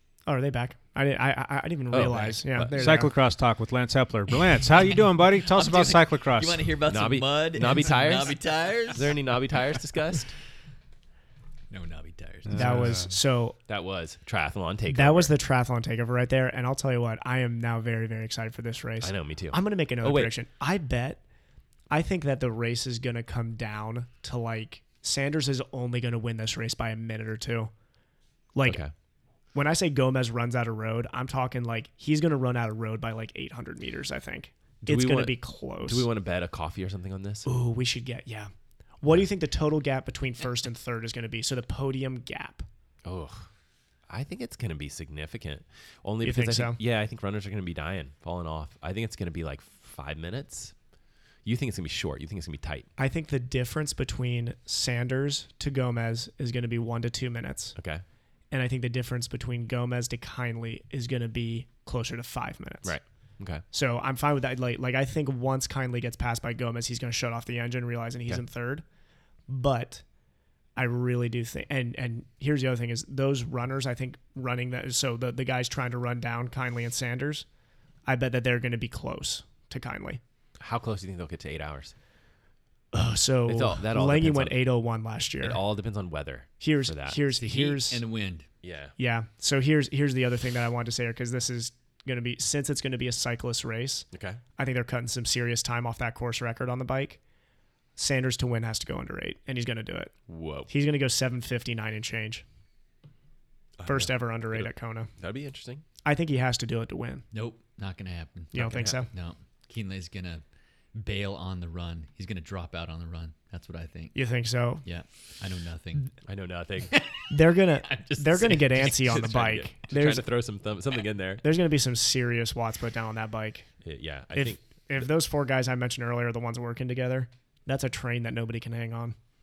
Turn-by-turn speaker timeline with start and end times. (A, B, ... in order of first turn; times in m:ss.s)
0:00.2-0:03.1 A
0:01.9-0:02.7 B
0:02.7-0:06.7 C
0:04.8-0:09.3 D
0:06.8-0:10.4 B
0:11.7-0:12.9 D
0:12.4-0:13.1 C
0:12.5-0:13.6 A
0:13.7-0:15.3 B
0:14.9-0:21.2 A
0:19.0-0:20.3 B
0:21.9-0:27.7 A
0:28.5-0:28.8 A
0:28.6-0:28.9 B
0:29.5-0:36.1 A
0:34.8-0:37.5 B
0:37.4-0:38.5 A
0:39.0-0:42.6 A
0:43.0-0:43.5 B
0:44.1-0:50.7 B
0:46.2-0:46.8 A
0:51.4-0:52.9 B
0:53.0-0:57.8 A
0:57.8-0:58.0 B
0:58.5-1:03.0 A
1:02.8-1:03.6 B
1:03.7-1:08.8 A
1:09.5-1:10.0 A
1:10.8-1:17.4 A
1:18.0-1:20.2 A
1:20.6-1:21.9 B
1:22.9-1:25.6 A
1:23.4-1:24.6 B
1:25.4-1:27.3 B
1:26.6-1:28.0 A
1:27.4-1:28.5 D
1:28.6-1:28.9 B
1:29.0-1:37.2 A
1:34.1-1:34.4 B
1:38.0-1:40.1 A
1:40.3-1:40.7 B
1:40.7-1:42.4 A
1:43.8-1:45.8 B
1:43.8-1:45.1 A
1:46.0-1:47.2 A
1:47.3-1:56.2 D
1:48.5-1:49.1 A
1:48.6-1:49.0 B
1:54.1-1:54.8 A
1:56.2-1:57.0 B
1:56.9-1:57.3 D
1:57.3-2:00.3 A
1:57.8-1:59.0 D
1:58.8-2:01.4 B
2:01.4-2:03.7 A
2:03.8-2:05.1 B
2:04.3-2:09.2 A